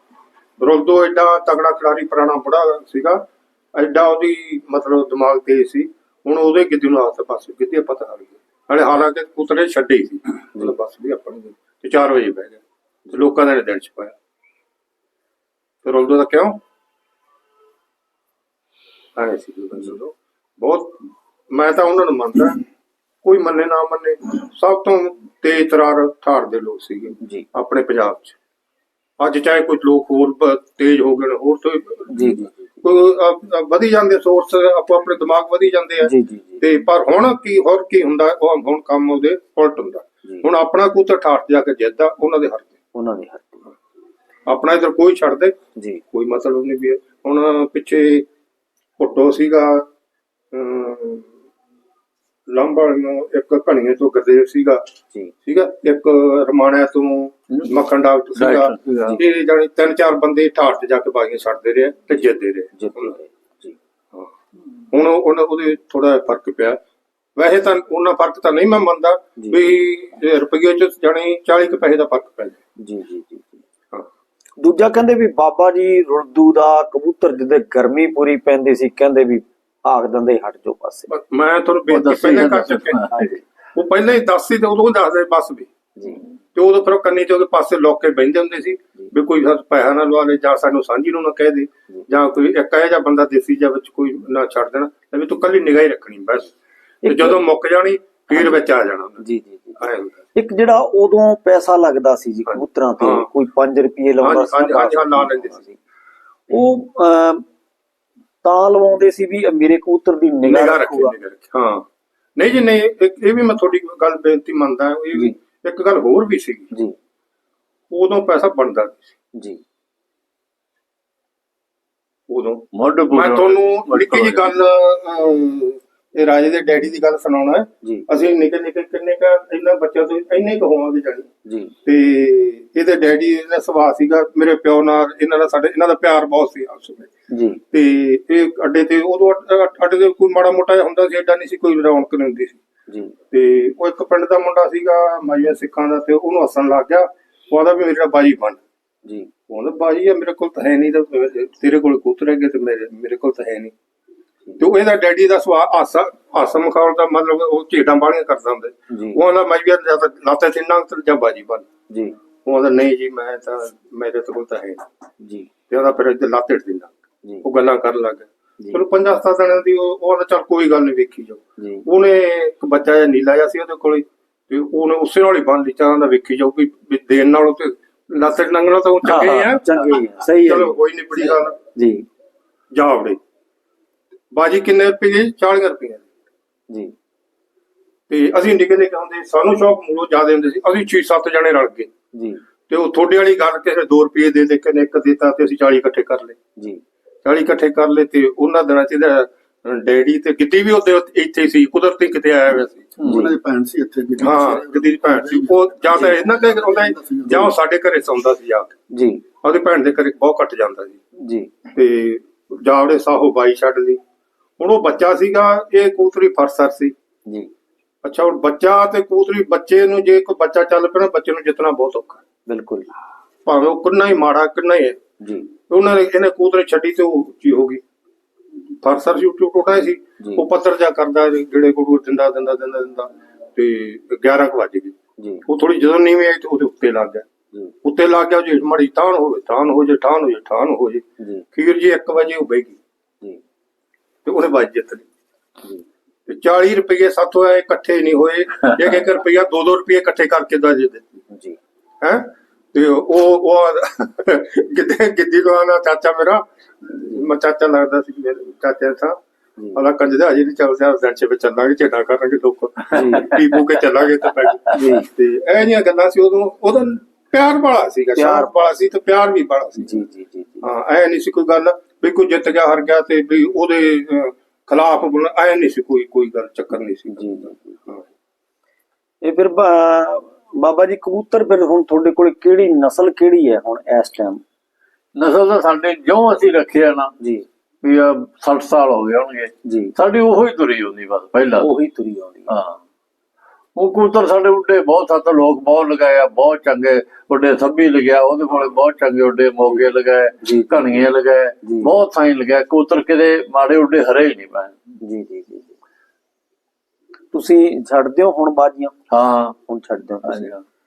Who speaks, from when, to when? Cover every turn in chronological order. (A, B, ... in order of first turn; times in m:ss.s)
0:00.6-0:14.2 A
0:15.8-0:16.6 A
0:19.2-0:21.0 A
0:21.5-0:22.6 A
0:23.2-0:28.4 A
0:29.2-0:42.7 A
0:32.1-0:32.5 B
0:36.0-0:36.6 B
0:42.9-0:43.7 B
0:44.5-0:45.6 A
0:45.8-0:46.0 B
0:46.1-0:48.3 A
0:49.0-0:49.9 A
0:50.5-0:51.3 A
0:52.5-0:54.8 A
0:55.4-1:03.1 A
0:58.4-0:59.2 C
1:02.8-1:03.8 B
1:04.9-1:06.8 A
1:07.4-1:12.6 A
1:09.4-1:09.6 B
1:12.8-1:13.6 B
1:14.6-1:21.1 B
1:21.1-1:23.0 A
1:21.9-1:23.4 C
1:23.8-1:25.7 A
1:26.5-1:36.5 A
1:37.0-1:37.4 B
1:37.1-1:39.2 A
1:39.2-1:39.8 B
1:39.8-1:40.2 A
1:40.4-1:45.8 B
1:42.5-1:43.3 A
1:44.2-1:45.6 A
1:46.5-1:47.4 B
1:48.4-1:51.2 B
1:50.4-1:51.8 A
1:52.4-1:56.7 A
1:57.9-1:59.1 A
1:59.4-1:59.6 B
2:02.3-2:11.3 A
2:02.7-2:04.5 C
2:11.5-2:11.7 B
2:11.8-2:17.1 A
2:17.3-2:17.6 B
2:17.7-2:22.6 A
2:22.9-2:23.1 B
2:23.3-2:28.6 A
2:29.5-2:33.7 A
2:34.6-2:41.7 A
2:38.9-2:39.2 B
2:41.9-2:42.2 B
2:42.4-2:44.8 A
2:45.2-2:45.5 B
2:45.7-3:01.6 A
2:51.6-2:51.9 B
2:59.0-3:00.7 B
3:01.7-3:02.0 B
3:02.7-3:03.2 A
3:04.3-3:06.1 A
3:08.1-3:11.9 A
3:12.1-3:12.4 B
3:12.7-3:16.4 A
3:16.6-3:16.8 B
3:17.2-3:22.9 A
3:23.0-3:23.3 C
3:23.0-3:27.5 D
3:23.0-3:23.4 B
3:24.2-3:28.8 A
3:28.9-3:29.2 B
3:29.4-3:31.0 A
3:31.2-3:31.5 B
3:31.7-3:34.0 A
3:34.6-3:36.9 A
3:38.0-3:42.2 A
3:42.5-3:42.9 B
3:43.5-3:45.0 A
3:45.2-3:45.5 B
3:45.7-3:47.8 A
3:48.8-3:55.0 A
3:55.2-3:55.4 B
3:55.5-3:57.3 A
3:57.8-4:02.8 A
4:01.2-4:01.5 B
4:04.2-4:05.0 A
4:06.3-4:11.0 A
4:11.3-4:11.6 B
4:12.0-4:19.2 A
4:19.7-4:30.0 A
4:22.9-4:23.4 B
4:24.7-4:25.1 B
4:28.2-4:28.6 B
4:29.8-4:30.7 B
4:30.6-4:38.0 A
4:37.1-4:37.8 B
4:39.2-4:44.4 B
4:45.2-4:47.1 C
4:47.2-4:47.5 B
4:47.8-4:51.7 C
4:49.6-4:49.9 B
4:51.6-4:52.5 B
4:52.5-4:52.8 C
4:53.8-5:04.8 C
5:00.4-5:01.1 B
5:01.6-5:01.9 B
5:05.0-5:05.7 B
5:07.3-5:08.9 B
5:09.1-5:09.6 C
5:09.7-5:10.5 B
5:10.2-5:10.6 C